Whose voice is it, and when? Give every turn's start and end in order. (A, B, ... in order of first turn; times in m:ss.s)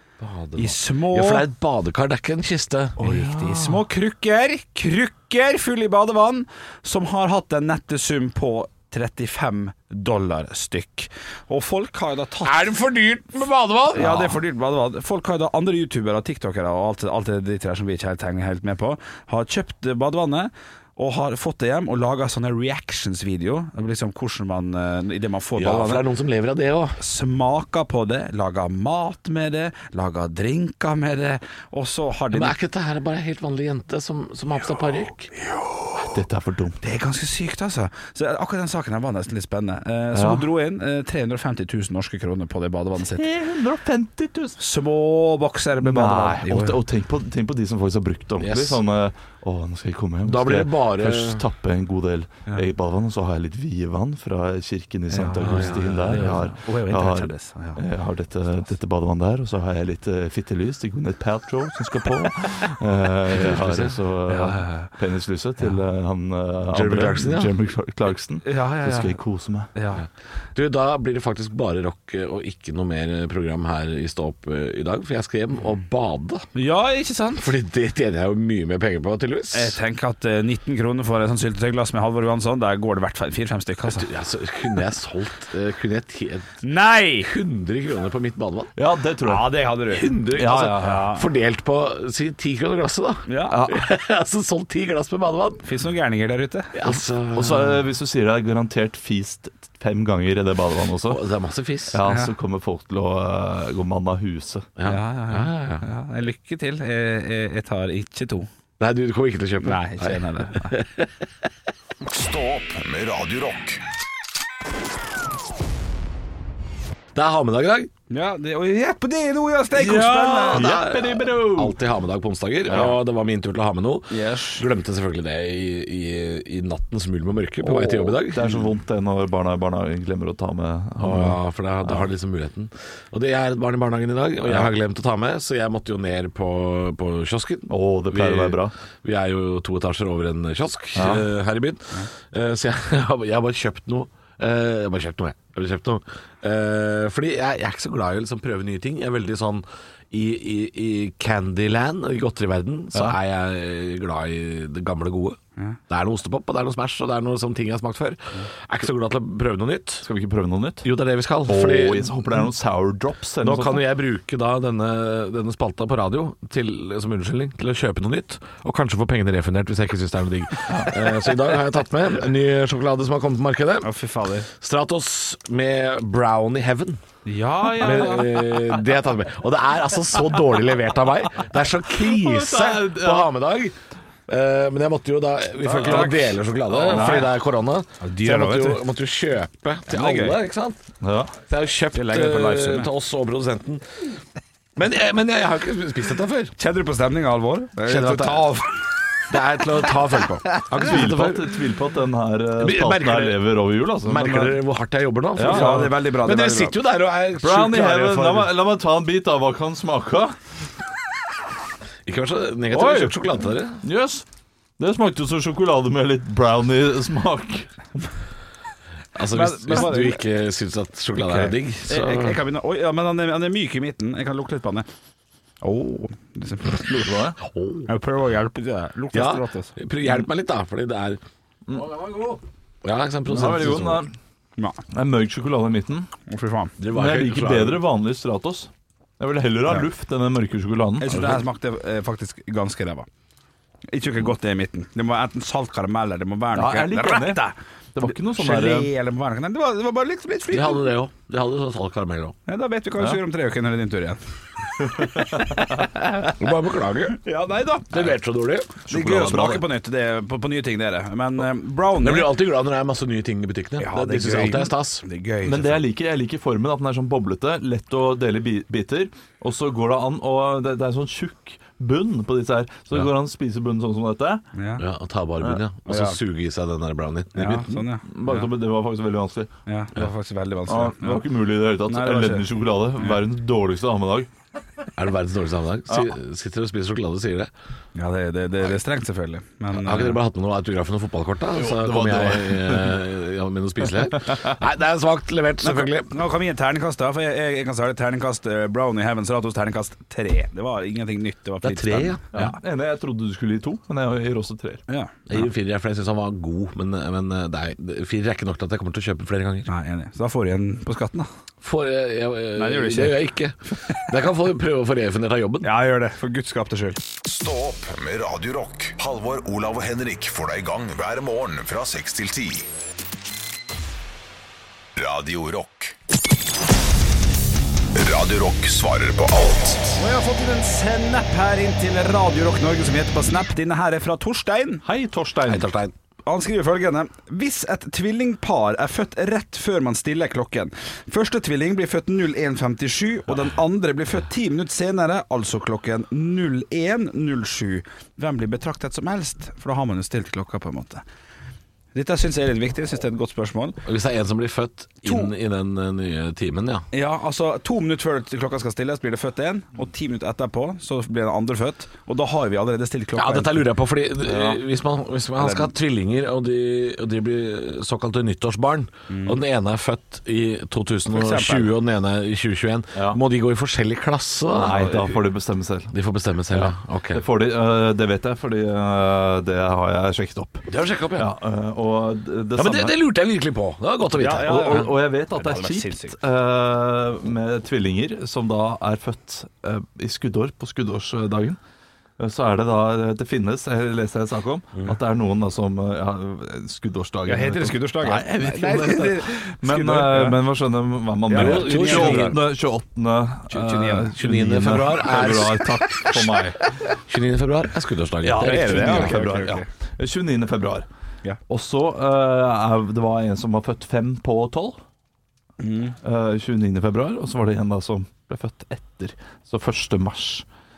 0:00.2-0:03.0 A
0:00.6-0:01.4 B
0:03.0-0:12.8 B
0:03.0-0:03.8 C
0:12.4-0:14.4 A
0:13.9-0:26.0 B
0:25.6-0:27.0 A
0:27.0-0:32.5 B
0:32.3-0:35.3 A
0:35.5-0:35.9 B
0:36.0-0:36.8 C
0:36.8-0:43.3 B
0:40.1-0:40.4 C
0:43.1-0:44.6 C
0:44.6-0:46.8 B
0:45.8-1:09.7 C
0:48.4-0:48.8 A
0:50.2-0:51.4 A
0:55.1-0:57.8 B
0:55.4-0:56.4 A
1:03.3-1:04.0 A
1:04.3-1:04.9 B
1:06.7-1:07.5 A
1:08.4-1:09.2 B
1:09.7-1:10.0 B
1:10.0-1:16.5 A
1:16.5-1:17.5 B
1:17.4-1:19.8 A
1:19.5-1:24.1 B
1:23.9-1:26.6 A
1:26.6-1:27.3 B
1:27.2-1:28.7 A
1:28.8-1:29.6 C
1:29.2-1:31.2 B
1:29.9-1:35.6 A
1:30.3-1:31.0 C
1:33.3-1:33.6 B
1:33.5-1:33.9 C
1:35.6-1:36.7 B
1:36.7-1:37.8 A
1:36.9-1:41.2 C
1:41.1-1:42.0 A
1:41.9-1:44.7 C
1:44.8-1:45.8 A
1:44.8-1:48.5 B
1:48.8-1:51.1 A
1:49.6-1:50.8 B
1:52.0-1:53.8 D
1:57.1-1:57.9 A
1:58.1-2:00.6 B
1:59.7-2:01.8 C
2:00.4-2:08.4 A
2:04.1-2:04.6 B
2:07.6-2:12.0 C
2:11.0-2:35.4 A
2:14.4-2:14.7 C
2:17.7-2:18.7 C
2:20.9-2:21.3 C
2:35.9-2:40.0 A
2:40.0-2:40.9 C
2:40.8-2:42.5 A
2:41.4-2:43.8 C
2:43.4-2:53.9 A
2:50.7-2:50.9 C
2:53.8-2:54.5 B
2:54.6-2:57.0 A
2:57.2-2:58.3 B
2:57.8-3:03.7 A
2:57.8-2:58.1 C
3:01.9-3:03.3 C
3:04.3-3:10.8 A
3:05.6-3:07.2 B
3:05.8-3:07.3 C
3:08.0-3:08.8 B
3:09.9-3:10.4 B
3:11.0-3:11.3 C
3:11.5-3:13.8 A
3:11.9-3:12.9 B
3:14.8-3:16.5 A
3:16.6-3:18.8 B
3:17.8-3:18.4 A
3:19.3-3:21.5 A
3:20.7-3:24.6 C
3:22.6-3:23.4 A
3:24.0-3:28.5 A
3:25.4-3:25.9 C
3:25.4-3:26.8 B
3:27.4-3:30.4 C
3:32.0-3:33.8 A
3:32.7-3:33.2 C
3:33.8-3:34.2 C
3:34.8-3:37.7 C
3:39.1-3:42.4 A
3:39.3-3:40.2 B
3:41.2-3:44.9 B
3:45.6-3:47.0 B
3:46.8-3:47.4 C
3:47.5-3:47.9 A
3:47.9-3:49.7 B
3:49.1-3:51.2 A
3:51.8-3:52.4 B
3:52.8-3:54.0 A
3:53.3-3:54.1 C
3:54.9-3:56.1 C
3:56.3-3:56.7 B
3:56.8-3:57.8 A
3:56.9-4:01.2 C
4:01.0-4:03.1 B
4:03.9-4:10.9 B
4:06.5-4:07.4 C
4:07.9-4:08.9 C
4:10.5-4:12.4 A
4:12.5-4:14.2 B
4:14.8-4:16.3 B
4:14.8-4:15.6 C
4:16.4-4:17.2 A
4:17.2-4:18.1 B
4:17.9-4:18.8 A
4:18.9-4:19.6 C
4:18.9-4:22.3 B
4:22.0-4:25.0 A
4:23.8-4:25.8 B
4:25.4-4:34.4 C
4:34.5-4:34.8 B
4:34.8-4:37.8 A
4:35.8-4:36.2 B
4:37.3-4:38.5 B
4:38.0-4:39.5 C
4:39.7-4:41.2 B
4:40.7-4:44.3 C
4:41.8-4:42.5 B
4:45.0-4:47.5 A
4:47.9-4:50.2 B
4:49.7-4:56.1 A
4:51.5-4:53.0 C
4:54.1-4:54.6 C
4:55.6-5:02.5 B
5:01.6-5:02.3 A
5:02.3-5:04.8 C
5:04.9-5:05.1 B
5:05.3-5:09.7 A
5:09.6-5:11.3 B
5:11.6-5:15.7 A
5:12.6-5:13.3 B
5:15.6-5:17.0 B
5:17.2-5:22.7 D
5:25.0-5:25.9 D
5:28.0-5:30.0 D
5:30.0-5:34.8 B
5:34.8-5:35.7 C
5:35.5-5:35.9 A
5:36.2-5:51.0 B
5:51.9-5:53.8 B
5:53.8-5:56.8 A
5:55.0-5:55.3 B
5:56.9-6:03.7 B
6:03.2-6:15.1 A
6:04.3-6:04.6 C
6:05.4-6:05.7 B
6:09.1-6:09.4 B
6:11.1-6:11.7 B
6:14.5-6:15.9 C
6:15.9-6:17.2 A
6:16.5-6:23.0 C
6:20.7-6:21.3 A
6:22.6-6:24.9 A
6:24.2-6:26.2 B
6:24.4-6:31.6 C
6:32.2-6:46.6 C
6:37.2-6:40.4 B
6:41.3-6:42.4 B
6:41.3-6:42.4 A
6:43.5-6:44.1 B
6:44.2-6:45.8 A
6:47.1-6:49.2 A
6:48.2-6:50.9 C
6:48.4-6:49.7 B
6:51.5-6:54.8 C
6:55.6-6:56.0 B
6:56.0-7:00.5 C